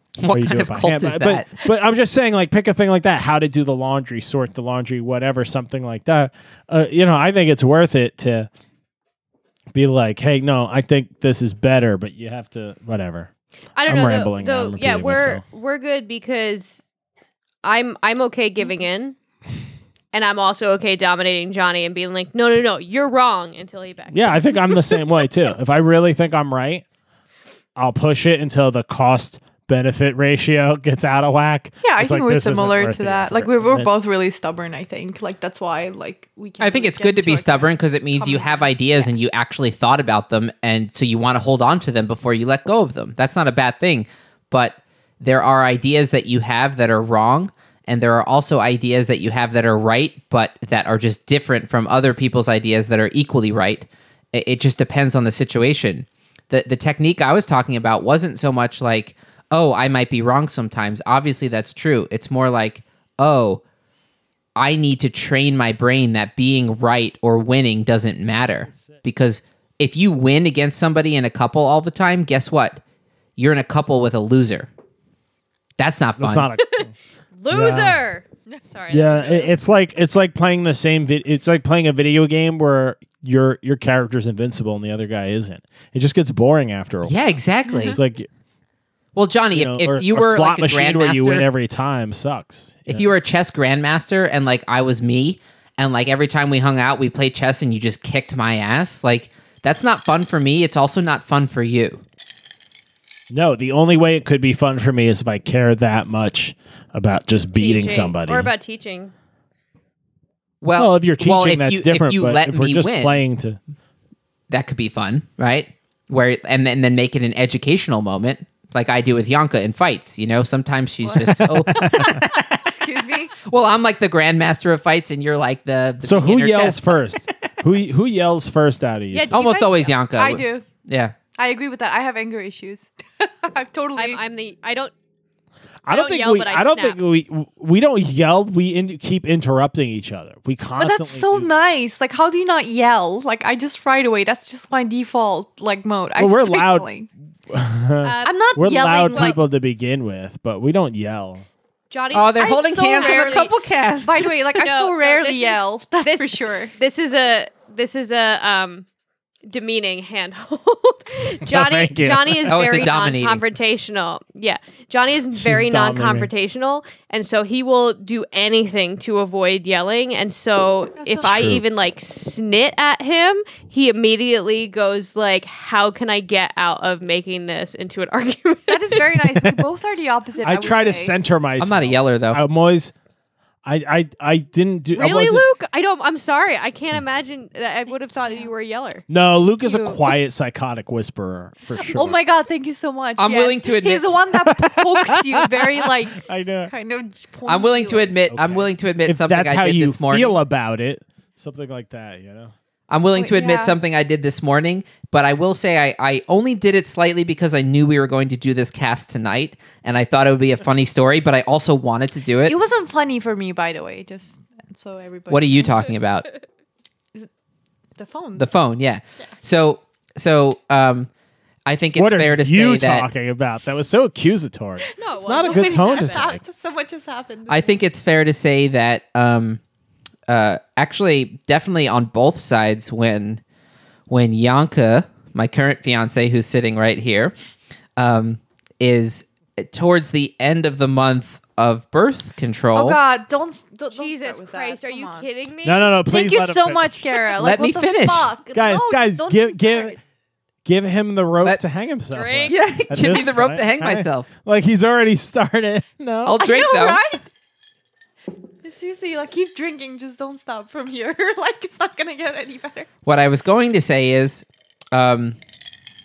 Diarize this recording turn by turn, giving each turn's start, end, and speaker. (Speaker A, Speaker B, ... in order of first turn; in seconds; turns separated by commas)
Speaker A: 0.2-1.6, Speaker B: 0.3-8.5, Speaker B: 9.7-13.3, Speaker C: 13.8-16.8, Speaker B: 13.9-15.4, Speaker C: 17.6-19.2, Speaker C: 20.1-24.9, Speaker B: 24.1-26.8, Speaker B: 27.8-33.9, Speaker D: 31.8-39.1, Speaker A: 36.6-63.6, Speaker A: 64.6-72.8, Speaker A: 73.4-74.7, Speaker A: 75.8-76.5, Speaker B: 76.2-76.9, Speaker C: 76.7-79.6, Speaker B: 77.5-78.0, Speaker B: 78.9-87.2, Speaker A: 87.1-88.0, Speaker D: 87.7-88.0, Speaker B: 87.9-88.3, Speaker A: 89.2-91.5, Speaker B: 89.5-93.1, Speaker A: 92.9-102.0, Speaker B: 103.3-108.5, Speaker C: 107.6-109.1, Speaker A: 110.6-113.2, Speaker B: 110.8-113.6, Speaker A: 114.5-127.0, Speaker D: 121.1-121.4, Speaker B: 121.2-122.2, Speaker D: 122.0-123.3, Speaker B: 126.0-129.3, Speaker C: 129.1-129.9, Speaker A: 129.3-131.2, Speaker D: 130.1-130.7, Speaker D: 131.4-134.2, Speaker C: 134.0-134.9, Speaker B: 135.9-141.5, Speaker C: 135.9-137.0, Speaker D: 140.8-147.1, Speaker B: 146.2-146.9, Speaker B: 147.5-151.5, Speaker C: 148.0-148.4, Speaker D: 148.2-149.4, Speaker C: 149.1-149.4, Speaker C: 151.9-153.5, Speaker A: 152.1-154.3, Speaker D: 152.4-153.5, Speaker D: 154.0-156.7, Speaker C: 154.5-158.8, Speaker C: 159.5-179.2, Speaker B: 161.5-162.7, Speaker A: 162.5-163.4, Speaker B: 165.4-166.3, Speaker D: 171.0-171.6, Speaker B: 171.2-171.6, Speaker D: 178.7-181.2, Speaker B: 180.4-182.9, Speaker A: 181.6-182.4, Speaker B: 183.7-185.4, Speaker C: 184.9-189.0, Speaker D: 188.1-188.5, Speaker B: 189.1-192.2, Speaker D: 189.6-190.1, Speaker D: 191.8-198.2, Speaker A: 193.2-194.2, Speaker B: 194.6-196.7, Speaker A: 197.5-200.4, Speaker B: 198.3-202.5, Speaker A: 202.9-212.6, Speaker D: 203.1-203.8, Speaker D: 212.4-215.9, Speaker A: 215.3-216.3, Speaker D: 218.0-218.5, Speaker A: 218.4-221.1, Speaker A: 221.7-223.1, Speaker B: 222.0-226.4, Speaker C: 225.0-226.3, Speaker D: 225.0-227.8, Speaker A: 227.5-229.6, Speaker A: 230.3-233.4, Speaker A: 234.1-237.3, Speaker A: 238.0-243.0, Speaker D: 242.7-245.3, Speaker C: 243.9-245.9, Speaker B: 245.7-247.3, Speaker D: 246.1-250.0, Speaker A: 247.4-248.3, Speaker B: 248.5-250.0, Speaker B: 250.7-256.4, Speaker C: 252.1-252.6, Speaker A: 252.5-254.3, Speaker A: 256.2-257.0, Speaker D: 256.4-257.3, Speaker D: 258.6-262.9, Speaker A: 263.1-265.4